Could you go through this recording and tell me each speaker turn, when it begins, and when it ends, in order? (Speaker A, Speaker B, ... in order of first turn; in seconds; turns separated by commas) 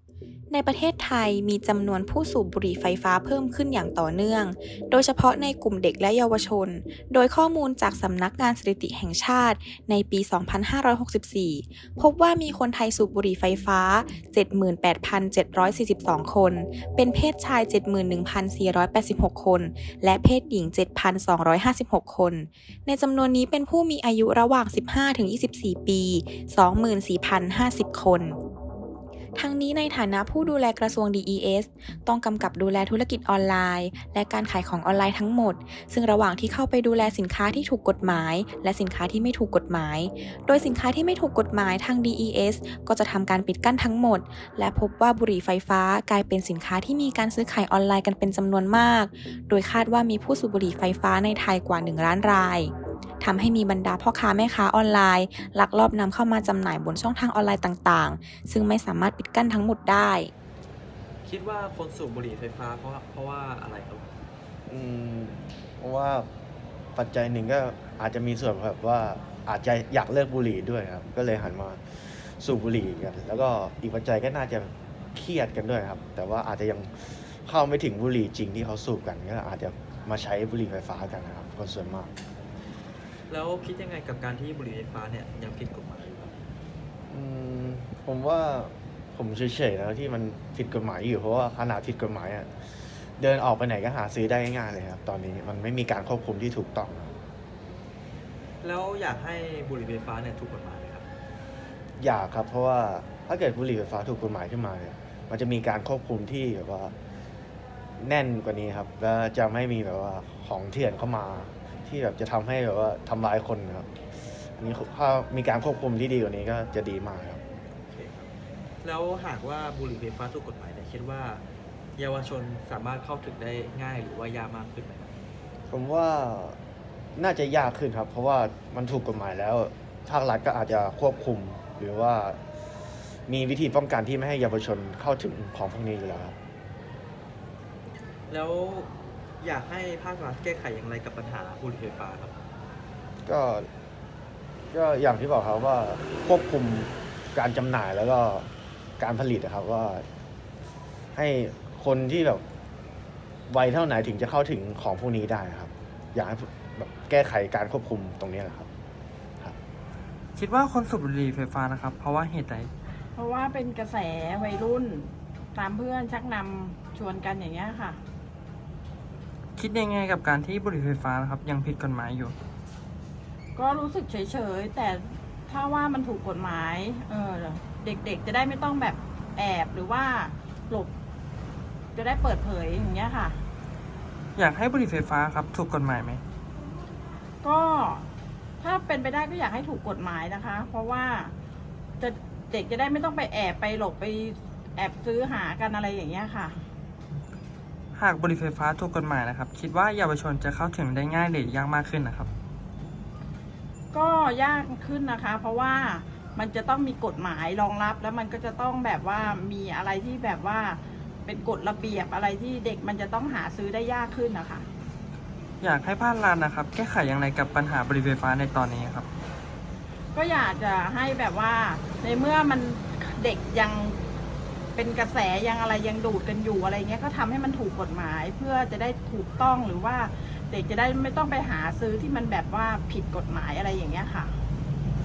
Speaker A: 0.5-28.4, Speaker A: 29.4-52.7, Speaker A: 53.2-60.3, Speaker B: 61.2-64.1, Speaker C: 64.7-66.3, Speaker C: 67.0-82.1, Speaker B: 83.3-86.5, Speaker C: 87.1-92.5, Speaker C: 93.2-97.2, Speaker B: 98.6-101.1, Speaker C: 102.0-106.9, Speaker C: 108.0-113.9, Speaker C: 114.6-117.4, Speaker B: 117.9-118.3, Speaker B: 118.8-121.4, Speaker B: 122.0-125.2, Speaker C: 125.7-126.6, Speaker C: 127.2-132.4, Speaker C: 133.3-136.4, Speaker B: 138.3-142.4, Speaker C: 143.2-143.7, Speaker C: 144.7-150.1, Speaker C: 151.2-152.4, Speaker C: 153.5-158.7, Speaker D: 160.3-162.7, Speaker E: 163.2-168.0, Speaker D: 169.6-172.3, Speaker E: 173.6-180.9, Speaker E: 181.9-183.4, Speaker D: 184.3-186.2, Speaker E: 187.4-188.1, Speaker E: 188.6-191.3, Speaker E: 192.0-196.6, Speaker D: 197.9-202.3, Speaker E: 203.9-214.7, Speaker D: 215.6-219.1, Speaker E: 220.1-224.0, Speaker E: 224.8-234.3